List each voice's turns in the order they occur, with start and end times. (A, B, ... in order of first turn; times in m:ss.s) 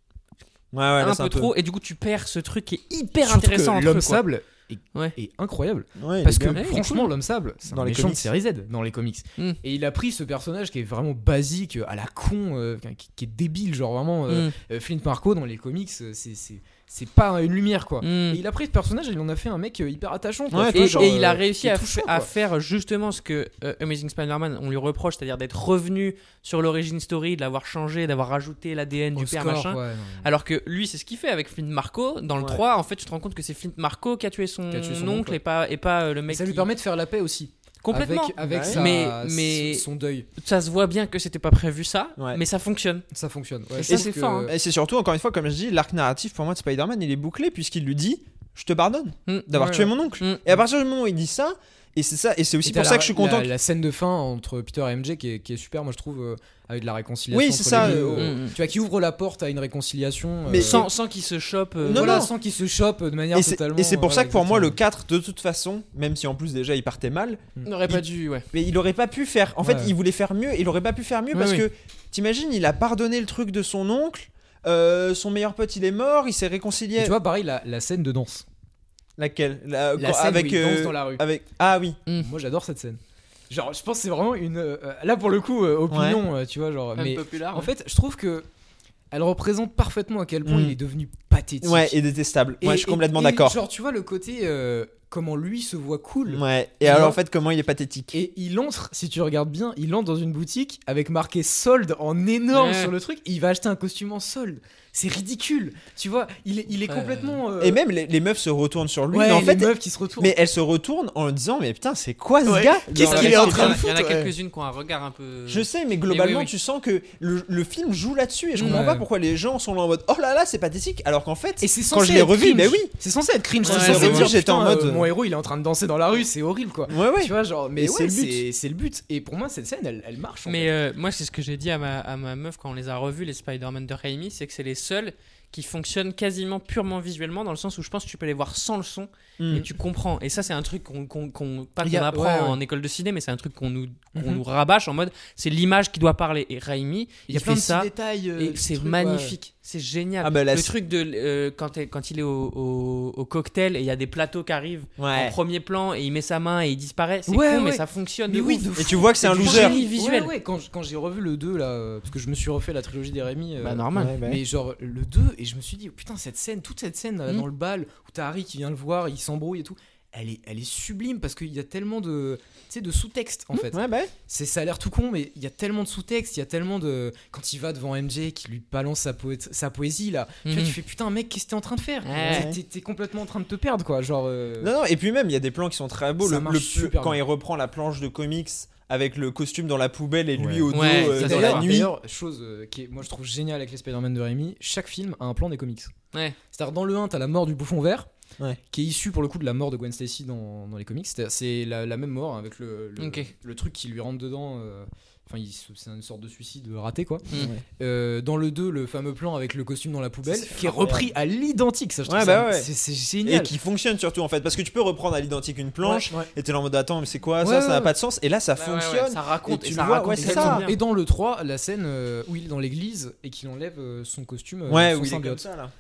0:00.7-0:01.5 A
0:01.0-0:04.2 B
0:03.2-0:22.3 C
0:06.0-0:06.6 A
0:06.5-0:07.1 B
0:07.7-0:08.3 A
0:14.3-0:14.6 B
0:18.0-0:18.4 B
0:20.5-0:21.2 A
0:20.7-0:36.7 B
0:29.2-0:30.3 C
0:34.7-0:35.4 C
0:36.3-0:40.3 C
0:37.8-0:39.8 B
0:38.4-0:38.9 A
0:40.4-0:43.0 B
0:43.1-0:44.5 C
0:43.8-0:44.5 B
0:43.9-0:53.5 A
0:49.5-0:49.9 C
0:52.6-1:00.9 C
0:57.3-0:58.4 A
0:57.8-0:58.6 B
1:00.5-1:00.9 A
1:00.6-1:02.2 B
1:01.8-1:02.3 A
1:01.9-1:04.8 C
1:03.3-1:17.1 A
1:07.6-1:08.5 B
1:09.6-1:09.9 C
1:11.3-1:11.6 B
1:17.0-1:18.5 C
1:19.2-1:22.0 A
1:20.0-1:21.2 C
1:22.2-1:23.0 C
1:23.5-1:28.5 C
1:25.9-1:26.2 A
1:27.0-1:27.7 B
1:29.1-1:32.0 C
1:30.4-1:30.8 A
1:31.6-1:33.6 A
1:32.6-1:37.2 C
1:36.3-1:38.2 A
1:38.1-1:47.8 C
1:42.5-1:42.9 B
1:46.9-1:47.4 B
1:47.6-1:53.9 A
1:49.1-1:50.4 C
1:52.4-1:54.3 C
1:52.9-1:56.5 B
1:55.5-2:02.9 A
1:58.6-1:58.8 B
1:58.6-1:59.1 C
2:01.6-2:10.7 C
2:03.6-2:04.3 B
2:03.6-2:05.1 A
2:06.9-2:08.4 A
2:10.4-2:40.3 B
2:19.4-2:19.6 A
2:21.8-2:22.6 C
2:24.2-2:24.4 C
2:27.3-2:29.4 C
2:30.2-2:30.7 A
2:35.0-2:35.4 A
2:37.3-3:04.7 C
2:38.8-2:39.8 A
2:43.6-2:44.2 B
2:44.0-2:44.4 A
2:53.7-2:54.1 A
3:00.4-3:00.8 B
3:02.0-3:02.5 B
3:02.3-3:02.6 A
3:04.6-3:11.9 A
3:06.2-3:07.2 C
3:10.4-3:15.9 C
3:10.7-3:11.7 B
3:16.5-3:18.1 C
3:18.7-3:33.5 C
3:23.0-3:23.3 B
3:27.4-3:27.6 A
3:30.4-3:31.1 A
3:32.1-3:32.7 A
3:33.2-3:40.7 A
3:35.8-3:36.3 C
3:37.4-3:37.9 C
3:38.6-3:40.8 B
3:40.2-3:45.4 C
3:44.7-3:45.7 A